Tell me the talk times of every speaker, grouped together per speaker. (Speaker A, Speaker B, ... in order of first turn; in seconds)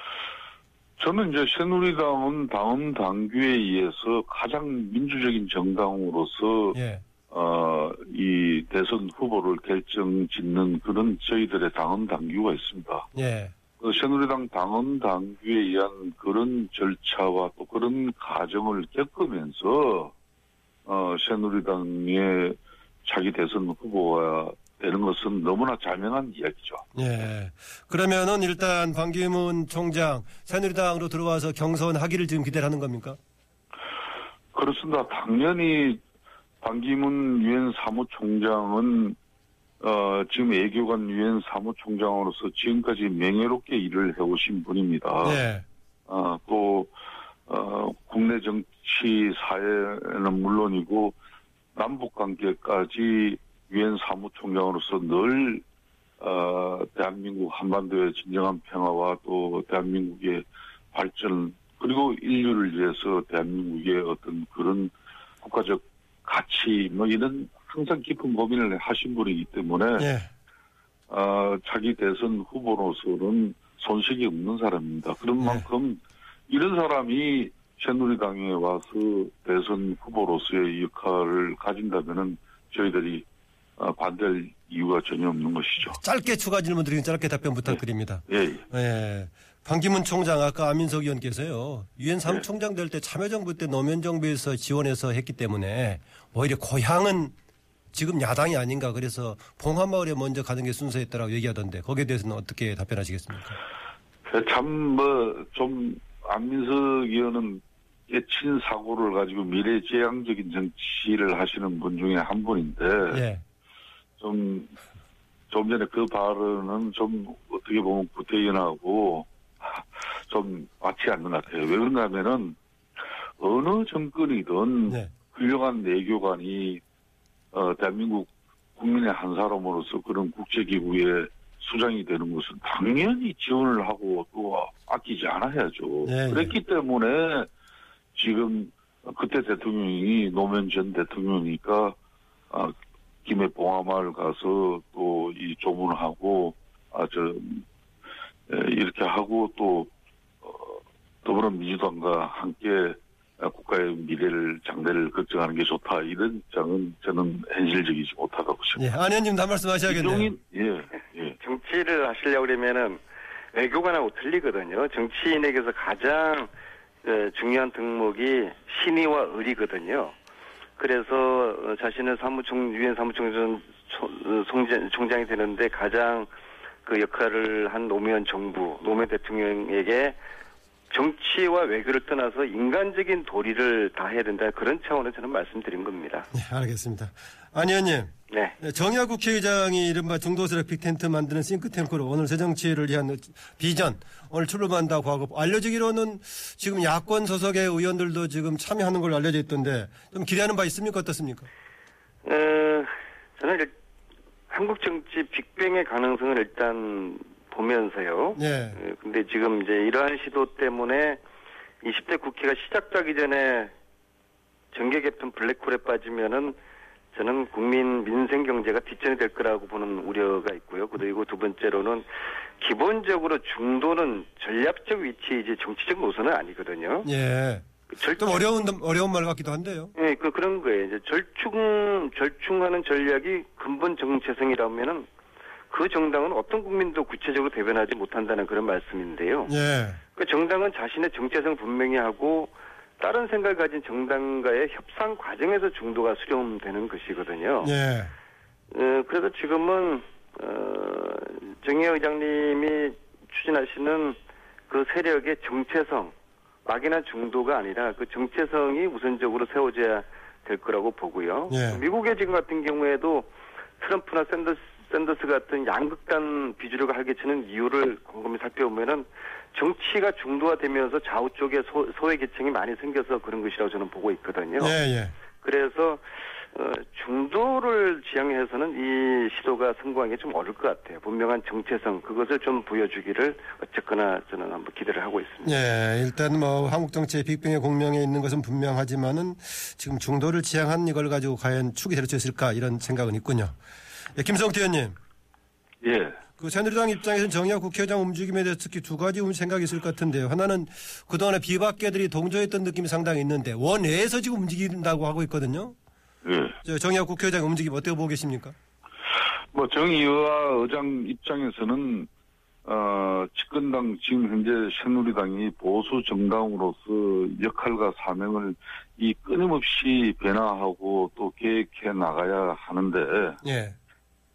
Speaker A: 1.0-6.8, 7.3-13.1, 13.8-20.1, 20.9-26.8, 34.5-36.0, 36.6-39.2, 39.8-45.4, 46.1-46.9, 47.5-51.2, 51.8-55.6, 56.2-70.1, 71.1-83.3, 83.8-86.0, 88.3-88.6, 104.2-113.2, 114.2-114.7, 115.5-122.6, 123.4-126.8, 127.5-137.5, 138.2-142.0, 143.2-147.7, 148.5-149.9, 150.4-158.8, 159.8-161.4, 295.8-296.2, 306.2-306.6, 309.5-312.1, 312.6-323.4
Speaker B: 6.7-7.0, 13.2-13.6, 27.0-33.2, 45.2-45.6, 70.0-70.3, 75.4-75.7, 86.0-97.3, 97.9-103.6, 113.1-113.4, 136.0-136.5, 158.8-160.3, 186.3-201.5, 208.3-208.8, 227.0-229.9, 239.5-240.0, 247.6-248.1, 261.5-261.8, 274.6-275.1, 285.4-293.6, 294.1-295.0, 296.4-305.7, 306.6-308.5, 323.4-323.8
Speaker C: 161.4-163.0, 163.5-166.5, 167.0-170.2, 170.8-176.3, 176.8-180.2, 180.9-186.3, 188.3-188.6, 202.2-203.7, 204.5-211.2, 211.8-213.7, 214.7-216.6, 217.1-227.1, 227.9-228.5, 229.9-235.1, 235.7-239.5, 240.2-247.7, 248.7-254.2, 254.7-274.8, 275.4-285.6